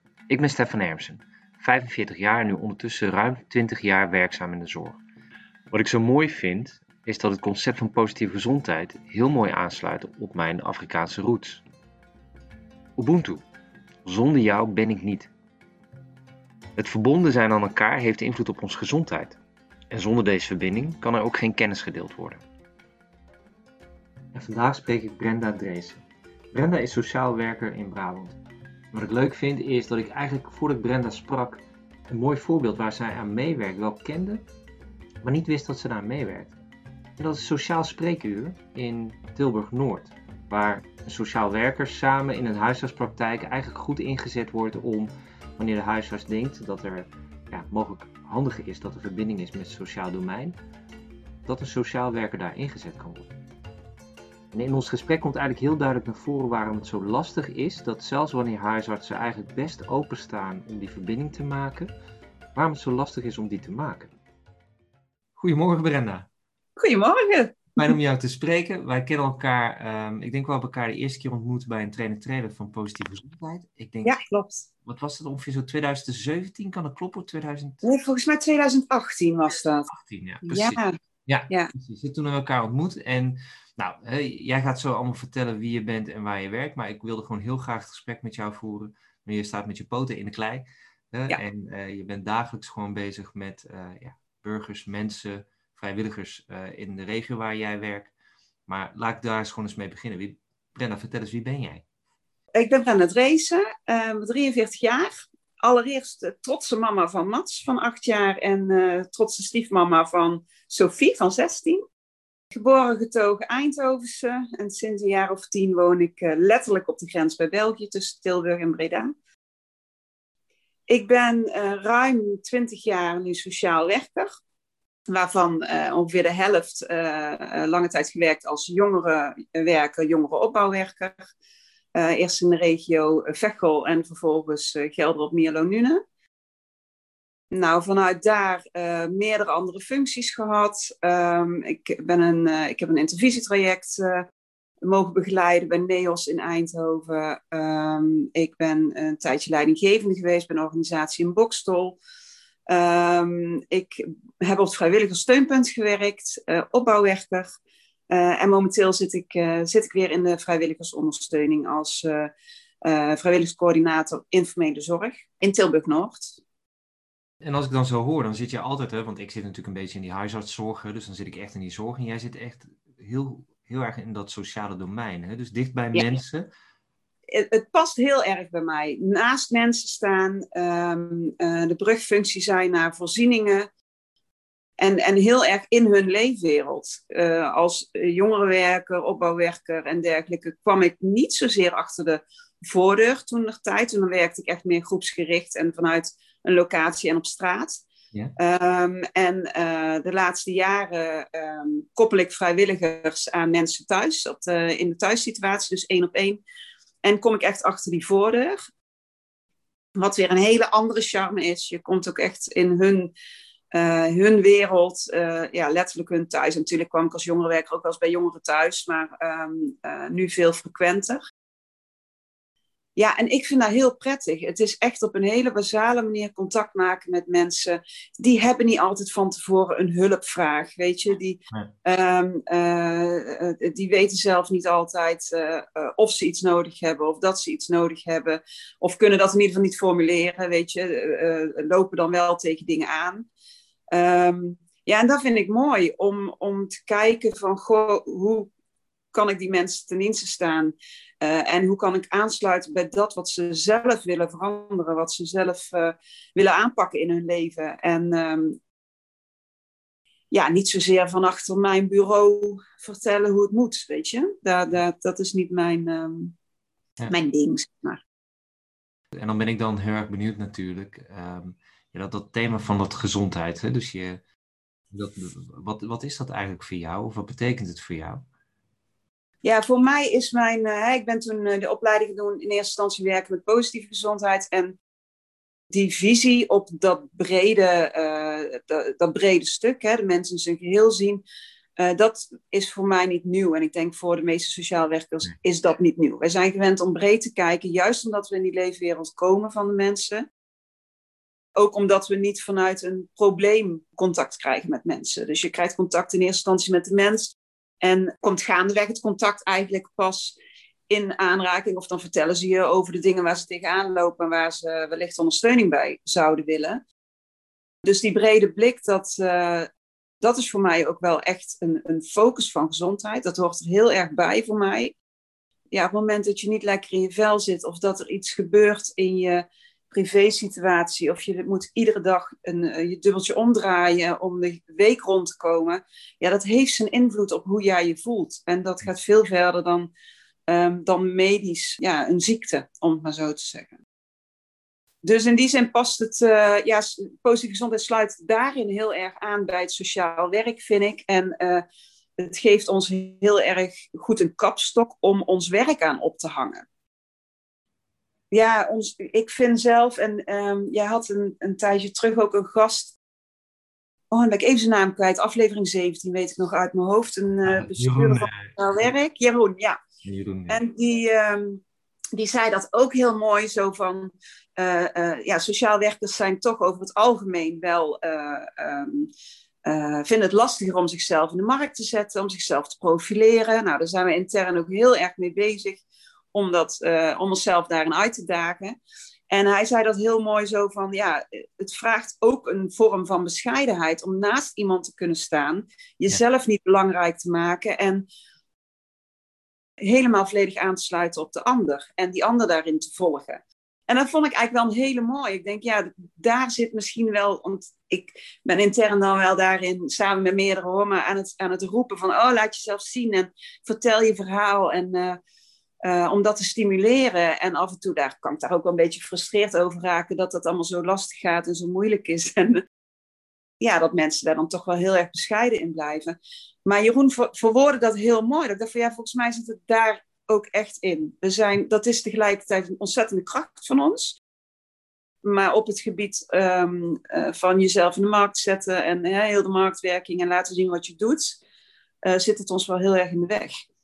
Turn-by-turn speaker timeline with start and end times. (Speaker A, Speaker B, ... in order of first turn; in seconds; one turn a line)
Speaker A: 0.3-5.0
Speaker A: 5.7-11.7
Speaker A: 13.0-13.4
Speaker A: 14.1-15.3
Speaker A: 16.8-19.4
Speaker A: 19.9-22.4
Speaker A: 24.3-28.4
Speaker A: 28.9-34.4
Speaker A: 35.2-36.6
Speaker A: 37.2-50.6
Speaker A: 51.5-53.3
Speaker A: 54.5-61.9
Speaker A: 62.5-64.1
Speaker A: 65.4-66.3
Speaker B: 66.8-67.9
Speaker A: 67.8-74.2
Speaker B: 74.0-74.7
Speaker A: 74.8-77.8
Speaker B: 77.8-79.9
Speaker A: 79.9-98.1
Speaker B: 80.4-81.0
Speaker A: 98.7-101.8
Speaker B: 102.5-111.8
Speaker B: 112.5-119.1
Speaker B: 120.9-124.3
Speaker B: 125.1-131.3
Speaker B: 131.9-136.0
Speaker B: 137.5-144.3
Speaker B: 144.8-152.0
Speaker B: 152.7-157.5
Speaker B: 158.1-162.3
Speaker B: 162.8-166.4
Speaker A: 167.4-176.5
Speaker B: 177.3-183.7
Speaker B: 184.8-197.8
Speaker B: 198.4-206.4
Speaker B: 207.0-208.6
Speaker B: 210.0-213.1
Speaker B: 213.7-221.2
Speaker B: 223.0-243.3
Speaker B: 243.9-248.5
Speaker B: 249.1-258.6
Speaker B: 260.3-266.4
Speaker B: 267.1-268.0
Speaker A: 269.2-274.2
Speaker A: 274.9-278.2
Speaker B: 279.4-284.8
Speaker B: 285.7-291.2
Speaker B: 291.8-300.3
Speaker B: 301.6-310.4
Speaker B: 310.9-316.8
Speaker B: 317.9-319.7
Speaker B: 320.2-324.9
Speaker B: 325.7-339.9
Speaker B: 340.5-343.8
Speaker B: 345.0-351.6
Speaker B: 352.2-356.6
Speaker B: 358.3-362.9
Speaker B: 364.1-369.8
Speaker A: 367.4-368.9
Speaker A: 370.0-370.6
Speaker B: 370.5-371.6
Speaker B: 372.1-379.1
Speaker B: 379.6-385.8
Speaker B: 386.3-388.8
Speaker B: 389.3-398.1
Speaker B: 399.8-415.2
Speaker B: 415.8-422.6
Speaker B: 423.6-434.2
Speaker B: 435.2-441.4
Speaker B: 442.0-443.5